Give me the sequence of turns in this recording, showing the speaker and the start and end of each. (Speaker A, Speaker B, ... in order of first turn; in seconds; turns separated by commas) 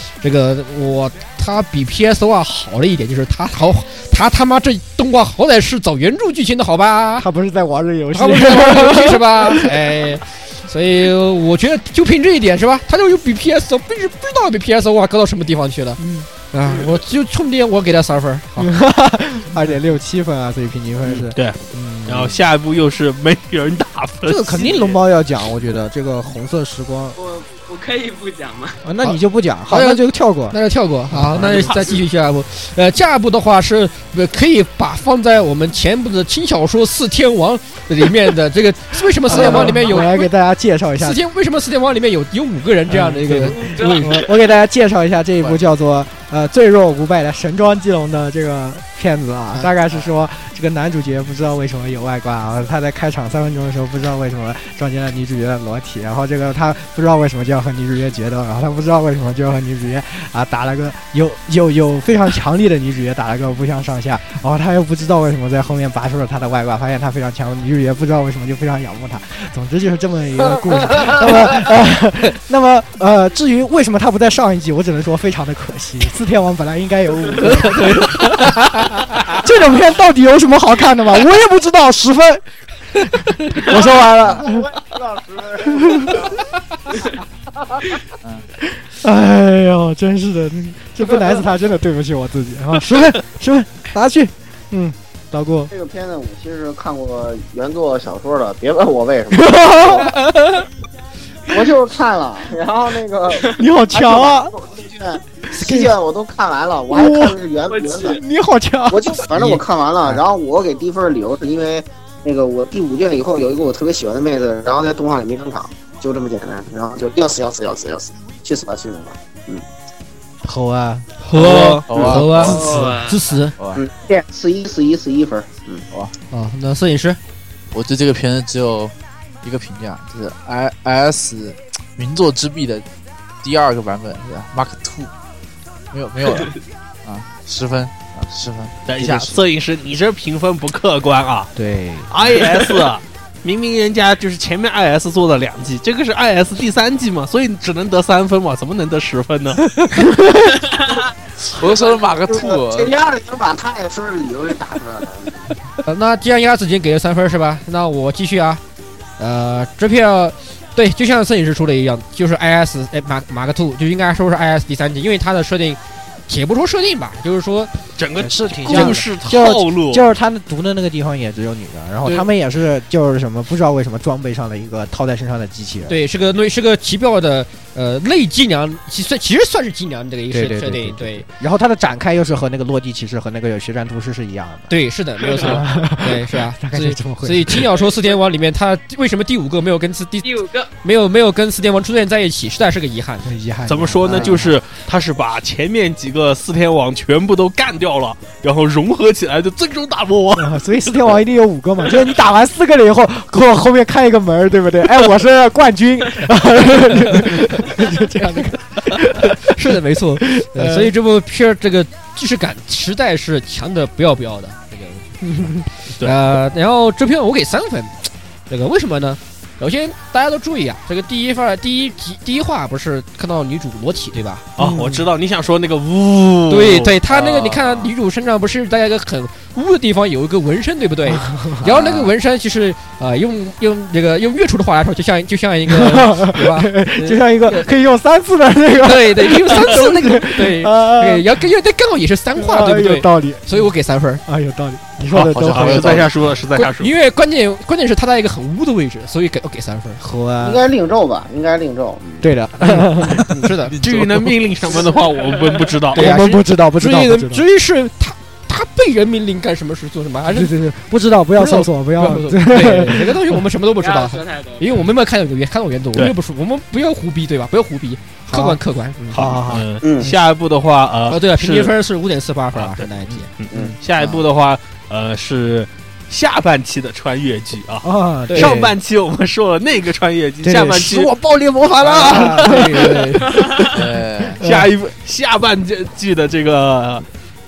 Speaker A: 0.2-7.3, Speaker B: 7.2-9.9, Speaker A: 8.1-18.7, Speaker B: 16.0-16.3, Speaker B: 18.6-22.4, Speaker C: 21.0-25.0, Speaker B: 24.2-27.2, Speaker D: 27.1-28.8, Speaker B: 28.8-30.6, Speaker A: 29.7-40.3, Speaker B: 31.1-31.9, Speaker B: 39.2-41.2, Speaker A: 41.0-44.2, Speaker B: 42.9-78.8, Speaker D: 43.5-44.3, Speaker A: 77.6-79.0, Speaker B: 79.3-84.7, Speaker E: 84.4-86.4, Speaker B: 85.7-86.3, Speaker B: 88.8-95.7, Speaker E: 95.7-100.2, Speaker B: 99.3-100.2, Speaker E: 101.5-108.2, Speaker B: 103.5-104.5, Speaker B: 105.5-106.0, Speaker B: 106.9-107.4, Speaker D: 107.7-108.2, Speaker B: 108.0-110.2, Speaker E: 108.9-119.6, Speaker B: 120.4-121.1, Speaker C: 121.3-121.8, Speaker A: 121.3-123.5, Speaker F: 121.9-123.8, Speaker B: 122.0-123.0, Speaker D: 122.4-123.2, Speaker E: 123.7-125.9, Speaker A: 126.3-127.2, Speaker F: 127.7-132.8, Speaker F: 133.4-135.1, Speaker F: 135.9-139.4, Speaker C: 138.9-141.5, Speaker B: 141.6-142.5, Speaker C: 142.1-149.6, Speaker F: 151.4-152.9, Speaker E: 151.7-155.5, Speaker A: 155.8-158.6, Speaker A: 159.2-167.7, Speaker C: 168.0-170.0, Speaker B: 168.2-176.0, Speaker A: 175.9-181.2, Speaker B: 180.3-184.7, Speaker A: 184.7-193.3, Speaker B: 185.4-187.7, Speaker D: 187.7-188.2, Speaker D: 190.2-190.7, Speaker B: 193.2-194.6, Speaker C: 193.7-200.6, Speaker B: 200.3-210.9, Speaker A: 207.0-207.7, Speaker A: 209.2-215.5, Speaker B: 215.4-215.6, Speaker A: 216.0-224.5, Speaker C: 224.6-227.9, Speaker B: 224.6-225.1, Speaker A: 226.5-237.7, Speaker B: 231.1-231.7, Speaker B: 235.7-241.4, Speaker A: 238.8-244.2, Speaker B: 242.3-243.7, Speaker B: 244.2-246.1, Speaker F: 245.1-246.2, Speaker C: 245.1-246.9, Speaker A: 246.5-250.0, Speaker B: 250.0-250.6, Speaker E: 250.4-252.3, Speaker B: 252.2-253.2, Speaker A: 252.6-253.7, Speaker F: 253.6-254.4, Speaker C: 253.8-256.1, Speaker D: 255.2-255.6, Speaker B: 255.9-257.4, Speaker A: 255.9-260.5, Speaker B: 260.3-263.4, Speaker A: 261.4-269.2, Speaker D: 263.8-264.8, Speaker B: 268.3-270.1, Speaker C: 269.1-271.7, Speaker E: 269.8-270.1, Speaker A: 271.1-273.3, Speaker C: 272.5-272.8, Speaker C: 273.4-281.1, Speaker F: 274.0-274.2, Speaker B: 277.8-278.8, Speaker A: 278.3-278.5, Speaker B: 280.4-283.0, Speaker C: 281.8-283.0, Speaker A: 281.8-283.4, Speaker D: 283.3-283.8, Speaker F: 283.7-284.4, Speaker B: 284.4-284.7, Speaker C: 284.4-287.0